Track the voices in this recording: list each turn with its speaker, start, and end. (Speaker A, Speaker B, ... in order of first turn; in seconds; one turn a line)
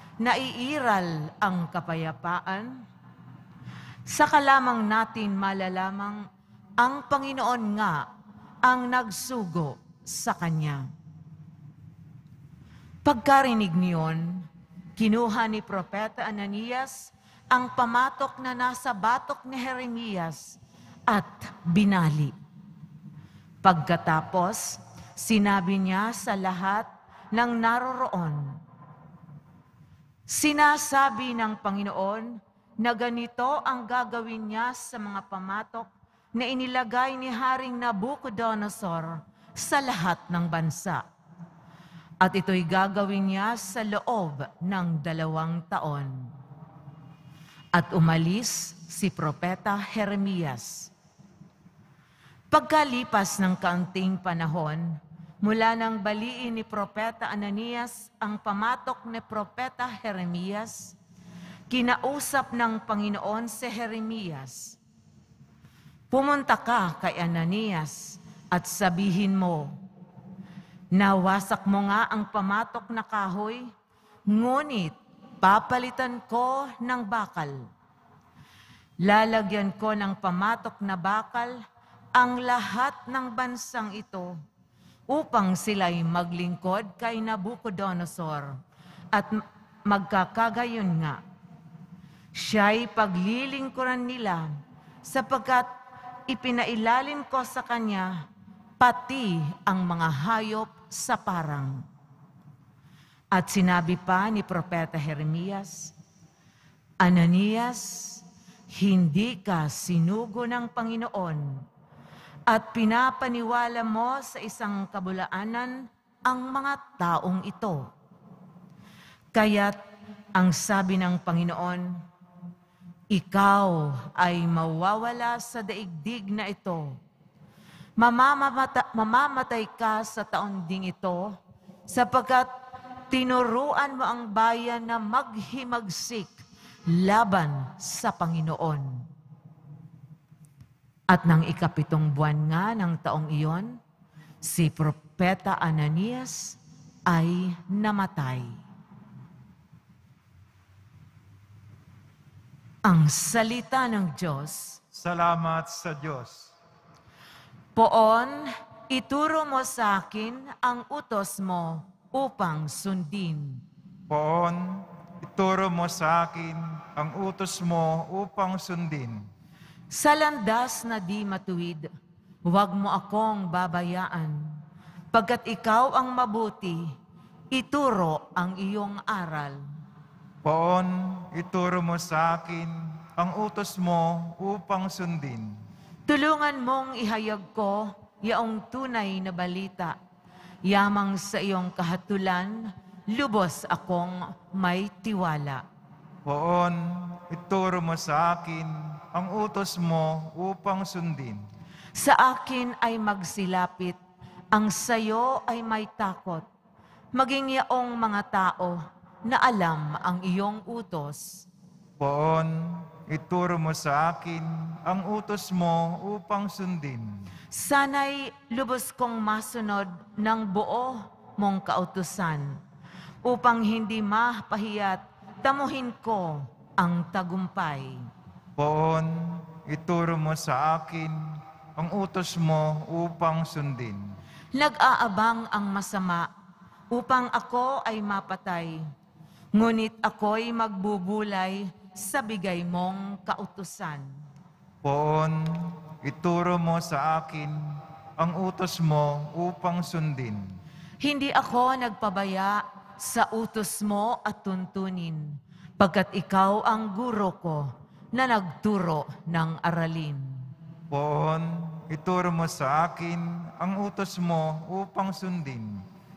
Speaker A: 0.2-2.8
Speaker A: 4.1-6.2
Speaker A: 6.8-8.1
Speaker A: 8.6-10.9
Speaker A: 13.0-14.4
Speaker A: 15.0-20.6
Speaker A: 21.1-22.3
Speaker A: 23.6-28.6
Speaker A: 30.3-41.0
Speaker A: 42.2-46.3
Speaker A: 47.7-50.9
Speaker A: 52.5-61.0
Speaker A: 61.7-64.8
Speaker A: 66.1-69.8
Speaker A: 70.9-73.7
Speaker A: 74.3-77.6
Speaker A: 79.0-81.6
Speaker A: 82.1-84.4
Speaker A: 85.1-88.6
Speaker A: 89.1-91.2
Speaker A: 92.3-94.5
Speaker A: 95.0-95.7
Speaker A: 96.3-98.2
Speaker A: 98.8-101.8
Speaker A: 103.3-105.9
Speaker A: 107.0-111.6
Speaker A: 112.5-117.9
Speaker A: 119.3-119.8
Speaker A: 120.3-122.0
Speaker A: 123.1-127.0
Speaker A: 128.0-131.4
Speaker A: 131.9-132.5
Speaker A: 133.1-136.3
Speaker A: 136.9-139.1
Speaker A: 141.1-143.8
Speaker A: 144.4-148.6
Speaker A: 152.8-154.8
Speaker B: 154.9-156.5
Speaker A: 157.8-163.6
Speaker B: 164.1-169.3
Speaker A: 169.9-171.9
Speaker A: 172.5-174.5
Speaker A: 175.1-176.9
Speaker A: 177.5-179.6
Speaker B: 180.4-185.6
Speaker A: 186.1-189.9
Speaker A: 190.7-195.6
Speaker B: 196.2-201.4
Speaker A: 202.0-204.0
Speaker A: 204.5-206.4
Speaker A: 207.1-211.4
Speaker B: 212.0-217.2
Speaker A: 217.5-222.6
Speaker A: 223.2-228.1
Speaker B: 228.6-234.1
Speaker A: 234.5-236.3
Speaker A: 236.9-238.8
Speaker A: 239.5-244.1
Speaker B: 244.8-250.5
Speaker A: 251.0-260.4
Speaker B: 260.9-265.8